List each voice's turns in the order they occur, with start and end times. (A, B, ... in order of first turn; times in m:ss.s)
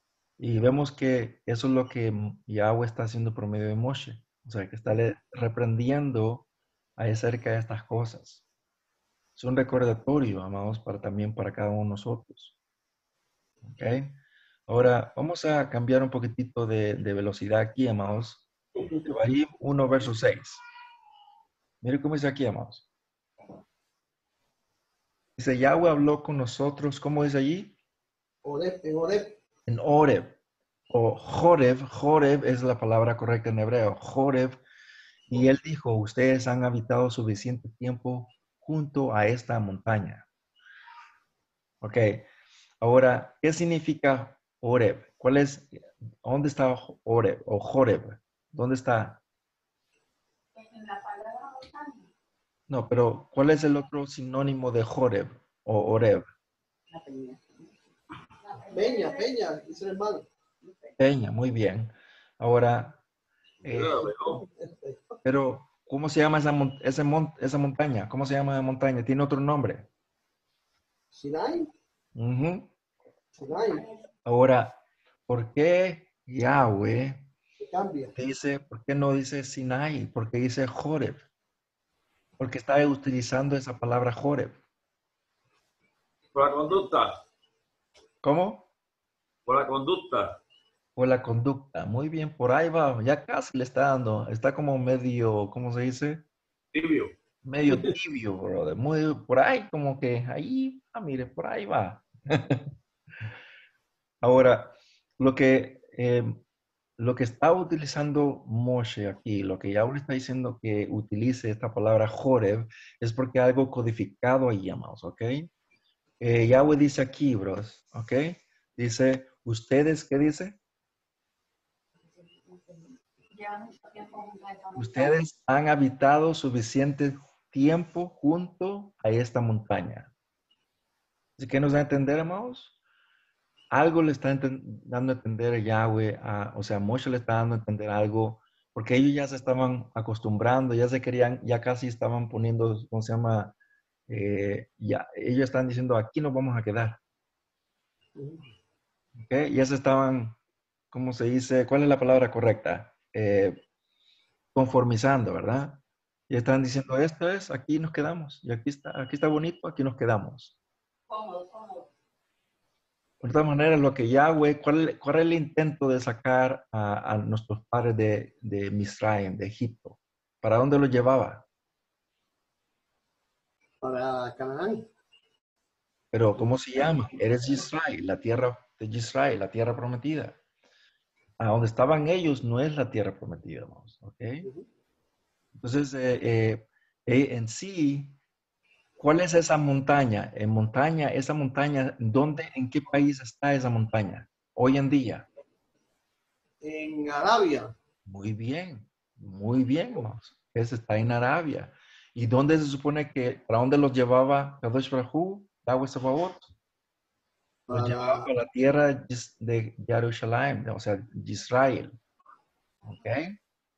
0:00.4-0:08.4 A
0:09.4-0:12.5 A
0:13.6-0:18.5 A
0:19.0-0:20.6 A
0:21.8-0:22.8 A
0:25.4-0:27.7 A
0:28.4-0:29.4 B
0:29.7-0:30.4 A
0:30.9-0:34.6 A
0:35.3-0:40.3 A
0:41.8-0:42.3 A
0:42.8-0:49.2 A
0:50.5-0:52.1 C
0:52.7-0:56.3 A
0:56.9-0:57.7 C
0:58.4-0:59.3 C
0:58.7-1:00.3 B
1:00.6-1:00.9 C
1:01.0-1:03.0 A
1:03.6-1:04.4 D
1:03.6-1:04.1 A
1:04.1-1:05.1 B
1:05.2-1:09.9 A
1:11.1-1:11.7 B
1:12.1-1:12.7 A
1:13.3-1:13.9 B
1:14.2-1:17.2 A
1:17.6-1:18.1 B
1:18.1-1:21.2 A
1:22.4-1:24.5 A
1:26.3-1:27.2 D
1:28.2-1:28.7 A
1:29.4-1:30.4 D
1:31.0-1:36.2 A
1:36.7-1:37.1 D
1:37.4-1:42.7 A
1:37.7-1:37.9 B
1:44.2-1:46.4 A
1:47.0-1:55.5 A
1:56.2-2:00.6 A
2:02.1-2:05.1 C
2:04.7-2:10.1 A
2:11.4-2:12.7 A
2:13.7-2:23.5 A
2:24.1-2:27.0 A
2:28.2-2:28.5 B
2:29.2-2:30.4 A
2:30.9-2:33.6 A
2:34.5-2:40.5 A
2:41.1-2:41.9 C
2:43.2-2:51.4 A
2:53.8-2:54.9 B
2:56.1-3:00.4 A
3:01.4-3:04.4 A
3:05.6-3:08.2 A
3:09.0-3:15.3 A
3:16.6-3:17.7 B
3:18.0-3:26.5 A
3:27.7-3:28.3 B
3:27.7-3:32.0 A
3:32.8-3:33.4 A